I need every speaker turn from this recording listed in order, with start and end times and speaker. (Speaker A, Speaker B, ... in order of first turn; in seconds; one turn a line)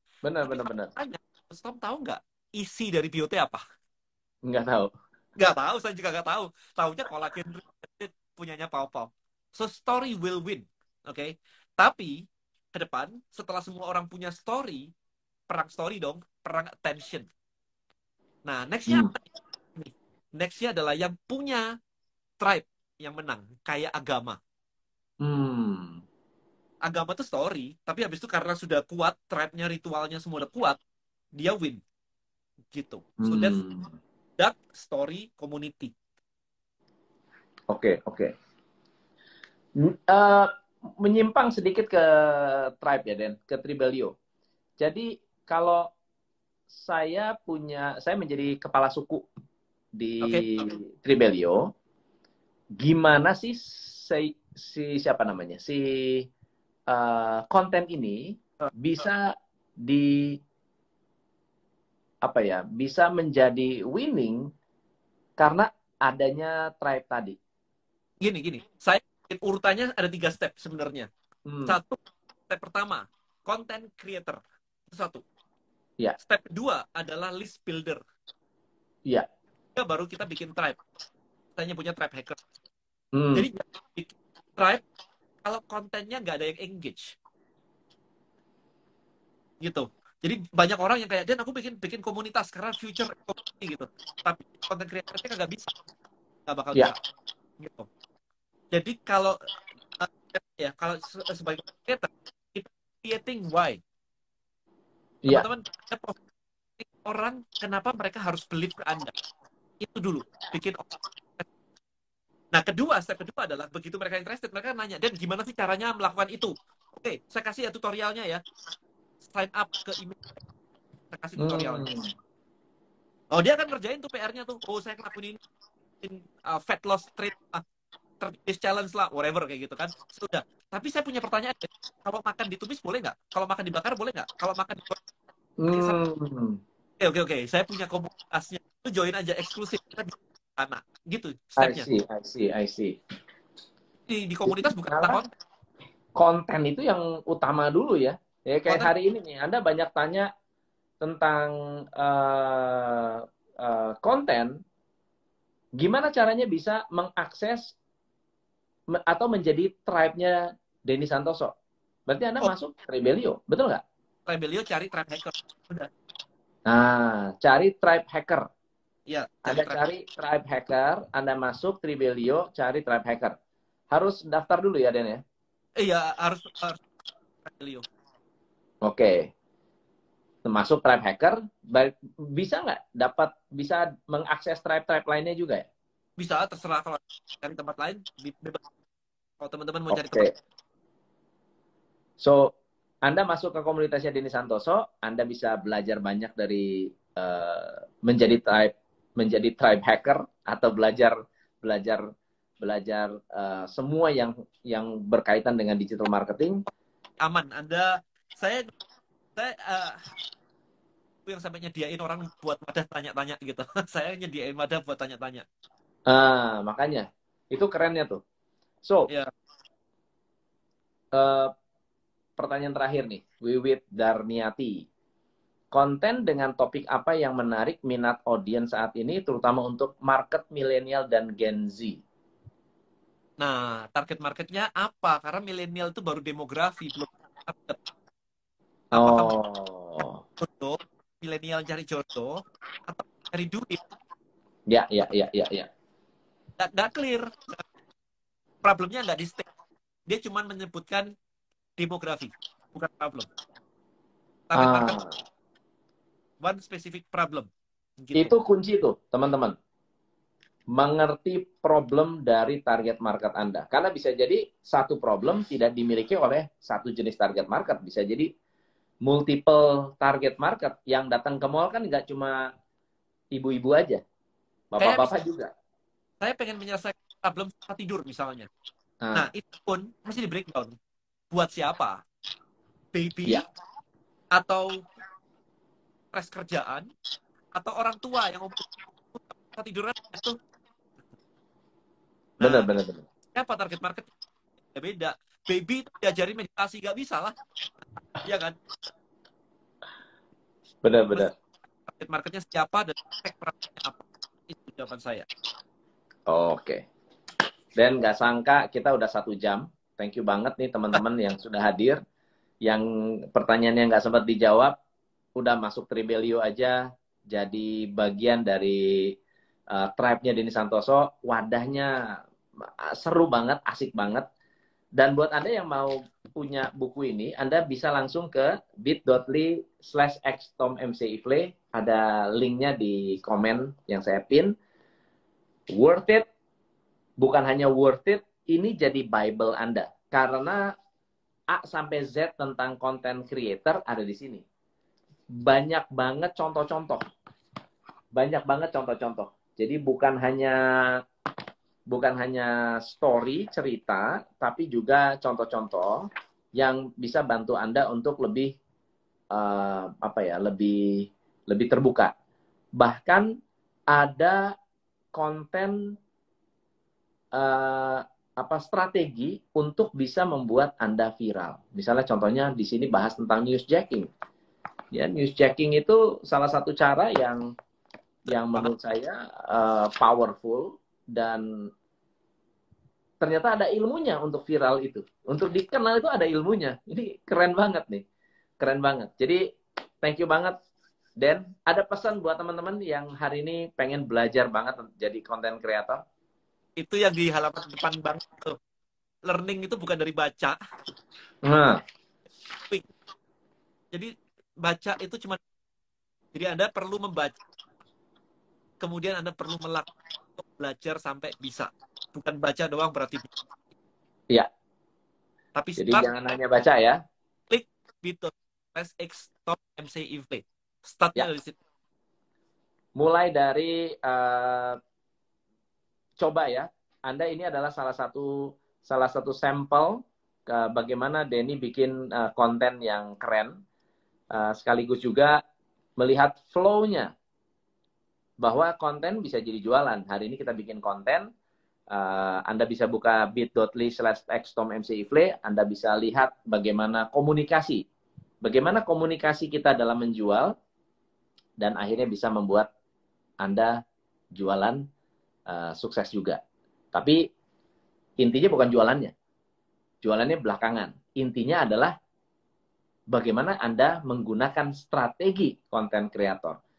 Speaker A: 0.2-0.9
Speaker B: 0.4-3.6
Speaker A: 4.5-4.9
Speaker B: 5.3-12.2
Speaker B: 12.7-14.9
Speaker B: 15.5-17.3
Speaker B: 18.4-19.2
Speaker A: 18.9-19.1
Speaker B: 19.7-21.6
Speaker B: 22.4-24.4
Speaker A: 25.2-26.0
Speaker B: 26.8-30.8
Speaker B: 31.3-31.8
Speaker B: 32.7-33.6
Speaker A: 33.2-33.9
Speaker B: 34.4-35.9
Speaker A: 37.7-38.3
Speaker A: 39.8-44.1
Speaker A: 44.8-45.9
Speaker A: 46.7-49.2
Speaker A: 50.0-51.7
Speaker B: 50.2-50.7
Speaker A: 52.8-56.2
Speaker A: 56.9-60.4
Speaker A: 62.2-64.5
Speaker A: 65.4-67.4
Speaker B: 68.2-71.1
Speaker A: 71.5-71.8
Speaker B: 71.6-75.2
Speaker B: 76.2-78.0
Speaker B: 79.7-80.8
Speaker B: 81.5-82.4
Speaker A: 83.1-83.5
Speaker B: 83.3-84.8
Speaker B: 85.4-87.1
Speaker B: 89.6-95.7
Speaker B: 96.5-97.0
Speaker B: 97.6-97.9
Speaker B: 98.7-99.3
Speaker B: 100.0-103.8
Speaker B: 105.3-106.2
Speaker B: 106.8-109.1
Speaker B: 109.8-111.5
Speaker B: 112.5-118.4
Speaker B: 119.2-120.3
Speaker B: 121.1-121.8
Speaker A: 121.4-122.1
Speaker B: 123.3-125.4
Speaker B: 126.0-127.6
Speaker B: 128.2-135.0
Speaker A: 135.6-136.6
Speaker B: 135.7-136.0
Speaker B: 137.0-141.9
Speaker A: 141.6-142.9
Speaker B: 144.1-145.3
Speaker A: 144.5-145.2
Speaker A: 146.2-150.3
Speaker B: 148.7-148.9
Speaker A: 151.0-154.6
Speaker A: 155.8-157.8
Speaker A: 158.9-161.5
Speaker A: 162.1-163.8
Speaker B: 164.2-165.9
Speaker A: 166.7-168.5
Speaker B: 169.1-169.8
Speaker A: 169.4-173.3
Speaker A: 173.9-175.2
Speaker B: 175.8-176.8
Speaker B: 177.4-177.8
Speaker A: 178.8-179.3
Speaker A: 180.4-185.7
Speaker B: 186.2-188.6
Speaker B: 189.4-190.3
Speaker A: 189.9-190.3
Speaker A: 192.2-192.5
Speaker A: 193.0-202.0
Speaker A: 202.6-206.6
Speaker B: 207.2-208.7
Speaker B: 209.3-210.0
Speaker B: 211.2-215.4
Speaker A: 216.1-218.2
Speaker A: 218.8-219.1
Speaker A: 221.1-221.5
Speaker A: 222.4-224.9
Speaker A: 225.7-232.0
Speaker B: 233.4-237.8
Speaker B: 238.9-239.3
Speaker A: 238.9-240.2
Speaker B: 240.4-243.8
Speaker A: 244.7-245.7
Speaker B: 246.6-247.7
Speaker B: 248.6-249.5
Speaker B: 250.1-251.1
Speaker B: 251.8-253.3
Speaker B: 254.5-255.0
Speaker A: 254.6-255.1
Speaker B: 256.4-257.5
Speaker B: 258.0-258.3
Speaker A: 258.1-259.5
Speaker A: 260.7-268.3
Speaker A: 269.0-272.5
Speaker A: 273.3-274.0
Speaker A: 274.7-275.5
Speaker B: 274.8-275.1
Speaker B: 276.2-278.5
Speaker A: 279.0-279.3
Speaker B: 279.1-280.7
Speaker B: 281.3-282.0
Speaker B: 282.9-283.4
Speaker B: 284.3-284.7
Speaker B: 286.1-286.9
Speaker B: 287.5-290.4
Speaker B: 292.4-292.7
Speaker A: 292.4-293.0
Speaker B: 293.3-294.1
Speaker B: 294.7-297.3
Speaker B: 298.2-298.6
Speaker A: 300.8-301.3
Speaker B: 301.9-305.3
Speaker A: 306.3-306.9
Speaker A: 307.8-312.0
Speaker A: 312.6-314.7
Speaker A: 315.4-319.1
Speaker A: 319.7-324.2
Speaker A: 325.0-334.5
Speaker A: 335.7-336.2
Speaker A: 337.2-340.6
Speaker A: 341.5-344.4
Speaker A: 345.3-347.0
Speaker A: 348.1-350.6
Speaker A: 351.9-358.5
Speaker A: 359.3-362.1
Speaker A: 362.8-363.3
Speaker A: 363.9-364.5
Speaker A: 365.1-365.8
Speaker A: 367.4-374.1
Speaker A: 374.9-377.4
Speaker A: 378.2-381.4
Speaker B: 378.3-378.7
Speaker A: 383.2-388.0
Speaker A: 388.6-389.4
Speaker A: 390.0-390.5
Speaker A: 391.2-396.0
Speaker B: 396.8-398.6
Speaker B: 399.2-400.6
Speaker A: 401.4-401.8
Speaker B: 403.9-405.4
Speaker B: 406.3-407.4
Speaker B: 408.8-413.3
Speaker B: 415.5-416.1
Speaker A: 415.8-417.0
Speaker B: 417.5-421.6
Speaker A: 423.0-424.8
Speaker A: 426.2-433.6
Speaker A: 434.3-435.4
Speaker A: 436.0-437.1
Speaker A: 438.4-441.3
Speaker A: 441.9-447.8
Speaker A: 448.4-450.5
Speaker A: 451.6-452.7
Speaker A: 453.4-453.8
Speaker A: 454.3-454.8
Speaker A: 455.5-456.4
Speaker A: 456.9-457.2
Speaker A: 458.2-459.1
Speaker A: 460.0-461.9
Speaker A: 463.1-466.6